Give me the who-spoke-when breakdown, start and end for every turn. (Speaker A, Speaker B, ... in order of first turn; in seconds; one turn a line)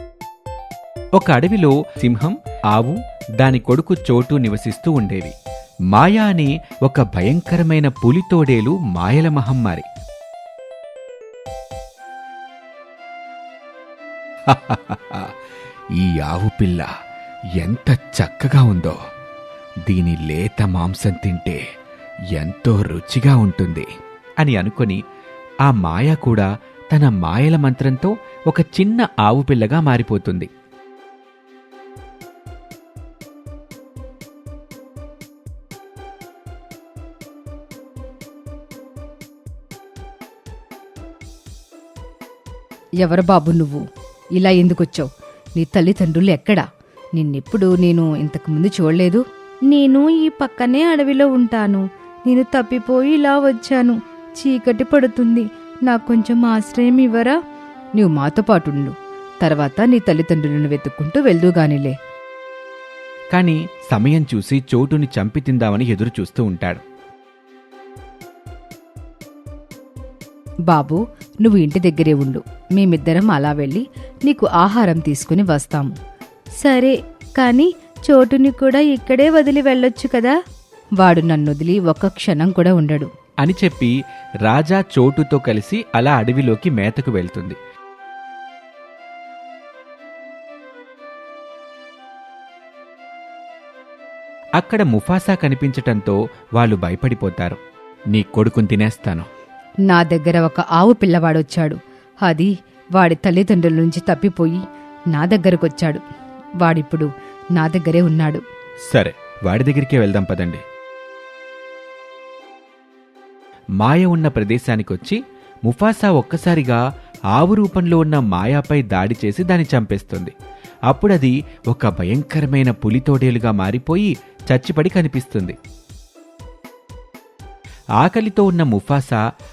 Speaker A: 1.2-5.3
Speaker A: 5.9-9.8
Speaker A: 14.5-15.3
Speaker A: 16.0-16.9
Speaker A: 17.6-19.0
Speaker A: 19.9-21.6
Speaker A: 22.4-23.9
Speaker A: 24.4-25.0
Speaker A: 25.7-30.5
Speaker B: 43.0-43.8
Speaker B: 44.4-45.1
Speaker B: 45.6-46.6
Speaker B: 47.2-57.3
Speaker B: 58.0-58.9
Speaker B: 59.5-61.9
Speaker A: 63.3-66.8
Speaker B: 70.7-75.9
Speaker B: 76.6-80.3
Speaker B: 81.0-83.1
Speaker A: 83.4-84.0
Speaker A: 84.5-87.6
Speaker A: 94.6-97.6
Speaker A: 98.1-99.3
Speaker B: 99.9-104.6
Speaker B: 105.1-106.0
Speaker B: 106.6-107.1
Speaker B: 107.6-108.4
Speaker A: 108.9-110.6
Speaker A: 113.8-116.8
Speaker A: 117.3-120.3
Speaker A: 120.9-125.6
Speaker A: 128.0-129.2